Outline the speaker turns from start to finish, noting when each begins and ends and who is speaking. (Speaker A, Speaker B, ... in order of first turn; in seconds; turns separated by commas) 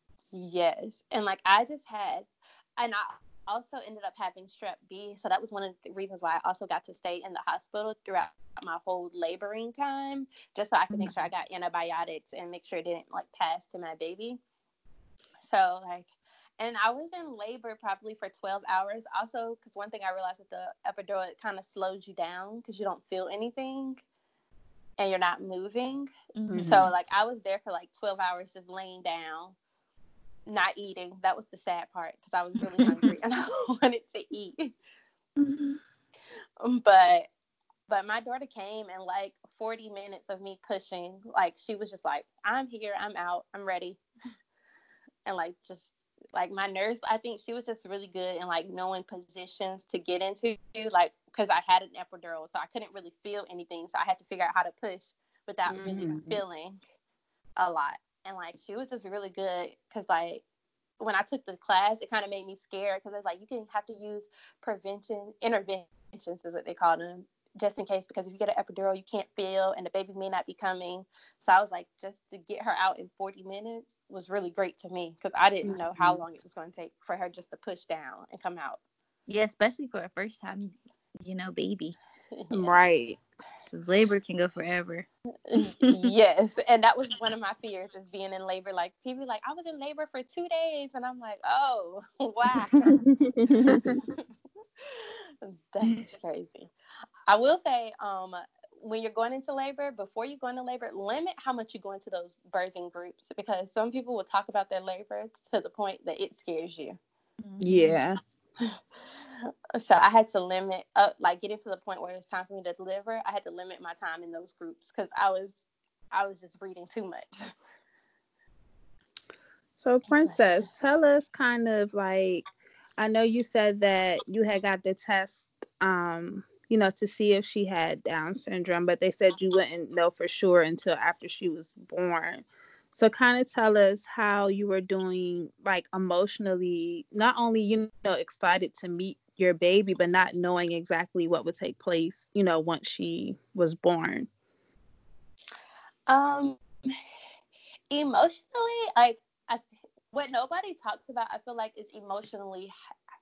Speaker A: 0.3-14.4, Speaker A: 15.4-24.0, Speaker A: 25.0-29.6, Speaker B: 26.4-26.9, Speaker C: 26.5-26.9, Speaker A: 30.5-34.7, Speaker B: 35.4-35.8, Speaker A: 36.6-37.3, Speaker A: 37.9-44.0, Speaker A: 45.3-56.8, Speaker C: 55.7-56.4, Speaker A: 57.6-60.4, Speaker A: 61.0-78.8, Speaker C: 75.7-76.2, Speaker B: 79.3-82.0, Speaker A: 82.3-82.8, Speaker C: 82.5-83.2, Speaker B: 83.7-85.1, Speaker A: 85.5-93.0, Speaker B: 85.8-86.1, Speaker C: 93.0-94.0, Speaker A: 93.7-94.2, Speaker A: 94.9-96.7, Speaker A: 97.3-107.0, Speaker B: 107.4-108.0, Speaker C: 107.6-108.2, Speaker A: 109.8-117.5, Speaker C: 119.8-144.3, Speaker A: 146.1-146.9, Speaker A: 147.9-152.7